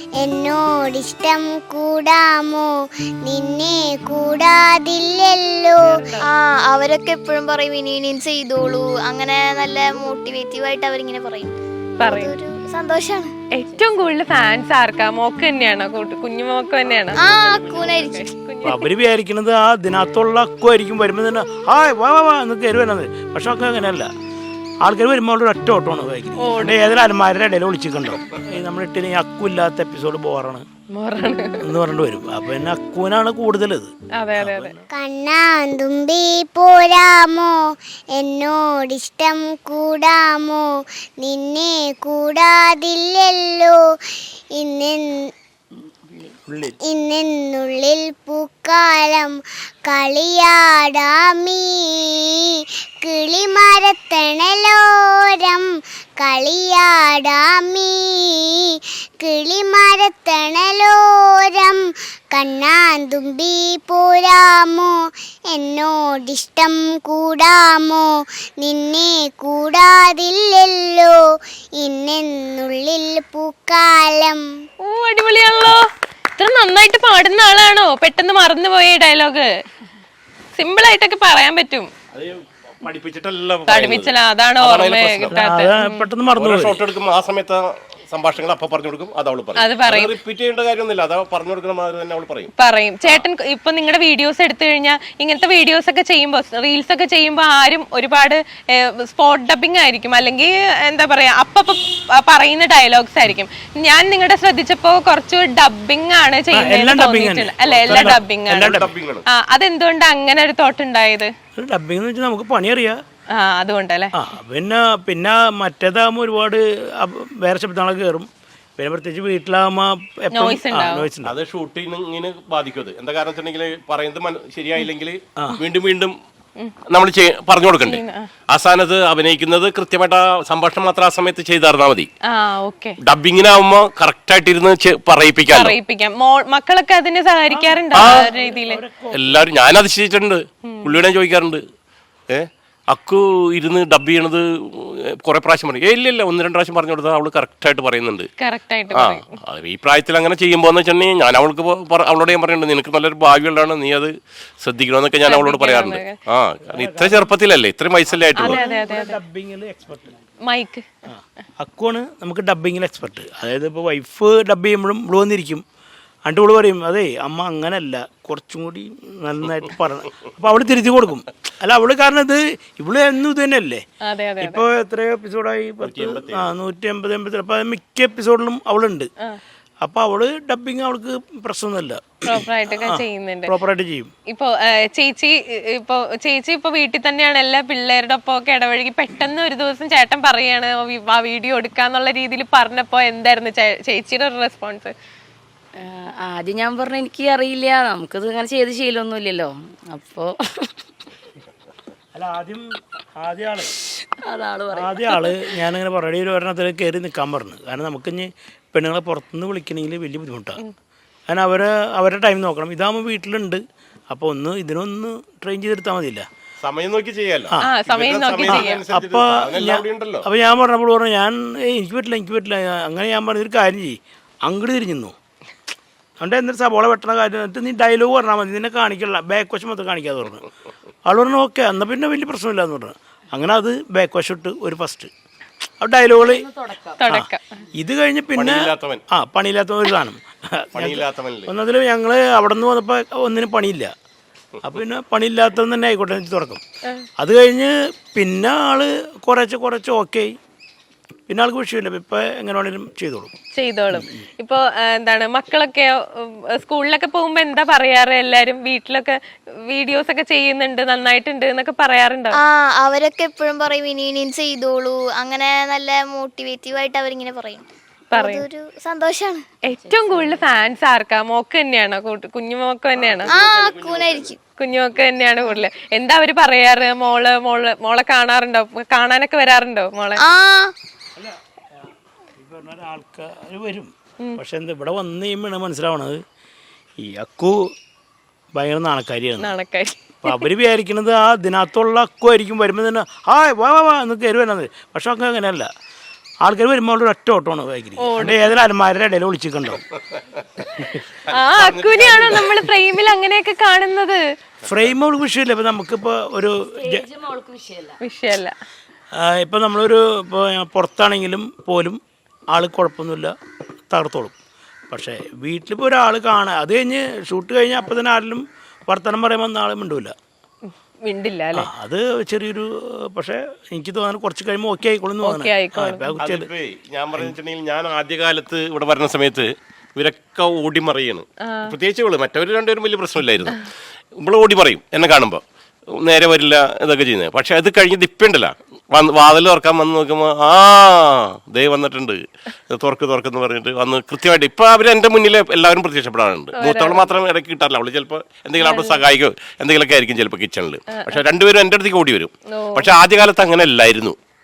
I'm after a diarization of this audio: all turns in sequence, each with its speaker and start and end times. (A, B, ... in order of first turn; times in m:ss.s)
0:00.2-0:02.7 A
0:03.2-0:05.9 A
0:05.8-0:06.3 B
0:06.3-0:13.3 C
0:12.0-0:12.4 B
0:13.5-0:18.9 B
0:17.2-0:18.3 C
0:18.6-0:24.1 D
0:24.8-0:30.6 D
0:26.4-0:26.7 B
0:30.9-0:31.7 B
0:31.6-0:34.9 D
0:34.2-0:34.7 B
0:34.9-0:37.5 A
0:38.1-0:40.6 A
0:41.2-0:43.8 A
0:44.6-0:45.0 A
0:46.1-0:46.3 E
0:46.5-0:46.8 D
0:46.8-0:49.3 A
0:49.8-0:52.5 A
0:53.0-0:55.7 A
0:56.2-1:01.8 A
1:02.3-1:04.9 A
1:05.5-1:08.1 A
1:08.6-1:11.1 A
1:11.8-1:14.4 A
1:14.8-1:19.5 B
1:20.5-1:21.9 B
1:22.1-1:25.3 F
1:23.7-1:26.1 B
1:25.3-1:26.9 D
1:26.4-1:32.5 F
1:29.6-1:30.1 B
1:32.6-1:51.3 B
1:46.5-1:48.9 D
1:47.6-1:49.2 F
1:51.6-1:53.0 D
1:53.3-1:54.1 B
1:54.1-2:01.3 D
2:00.3-2:01.1 B
2:01.2-2:06.1 F
2:06.9-2:12.1 F
2:07.8-2:08.3 B
2:12.3-2:13.0 B
2:13.0-2:15.8 F
2:15.5-2:18.8 B
2:17.5-2:19.5 D
2:17.9-2:18.3 F
2:19.1-2:21.6 F
2:20.7-2:20.9 B
2:22.3-2:28.3 F
2:28.4-2:29.3 B
2:28.9-2:38.6 F
2:35.2-2:36.2 B
2:36.7-2:37.3 D
2:38.1-2:40.2 D
2:38.4-2:39.2 B
2:40.4-2:40.8 B
2:41.1-2:45.6 D
2:46.2-2:53.8 D
2:54.0-2:54.6 B
2:54.4-2:59.1 D
2:55.8-2:56.5 F
2:59.8-3:04.1 D
3:02.2-3:03.5 B
3:04.3-3:14.9 B
3:15.8-3:20.7 E
3:22.1-3:22.6 D
3:23.2-3:23.7 D
3:24.2-3:25.3 E
3:24.7-3:30.6 D
3:31.3-3:36.2 D
3:36.6-3:40.3 F
3:37.6-3:38.8 B
3:38.4-3:45.1 D
3:46.2-3:50.4 D
3:51.0-3:55.1 D
3:55.8-3:56.5 D
3:56.2-3:57.0 E
3:57.0-3:57.6 B
3:57.1-4:03.9 D
3:58.3-3:59.0 F
4:00.7-4:01.5 F
4:04.6-4:06.6 D
4:07.2-4:10.4 D
4:11.3-4:13.3 D
4:13.5-4:22.4 B
4:22.3-4:29.6 C
4:28.1-4:28.4 B
4:29.6-4:33.3 B
4:29.7-4:30.7 E
4:33.0-4:34.4 F
4:33.3-4:34.4 C
4:34.6-4:40.2 B
4:40.2-4:40.7 C
4:41.2-4:46.2 D
4:47.0-4:47.7 D
4:48.5-4:49.5 D
4:49.4-4:50.4 B
4:50.2-4:55.7 D
4:56.4-4:59.8 D
4:58.0-4:58.5 B
4:59.8-5:00.6 F
5:01.3-5:02.5 F
5:01.3-5:04.2 B
5:04.6-5:04.9 F
5:04.6-5:07.1 D
5:06.7-5:08.0 E
5:08.0-5:08.6 B
5:09.2-5:12.0 D
5:12.5-5:13.3 D
5:13.9-5:14.3 D
5:14.9-5:20.1 D
5:21.0-5:21.7 B
5:21.5-5:26.5 D
5:25.2-5:26.1 B
5:26.2-5:33.7 F
5:31.4-5:31.7 B
5:34.2-5:35.4 F
5:36.0-5:54.2 F
5:46.6-5:47.1 B
5:48.6-5:49.0 B
5:50.9-5:51.2 B
5:52.5-5:52.9 B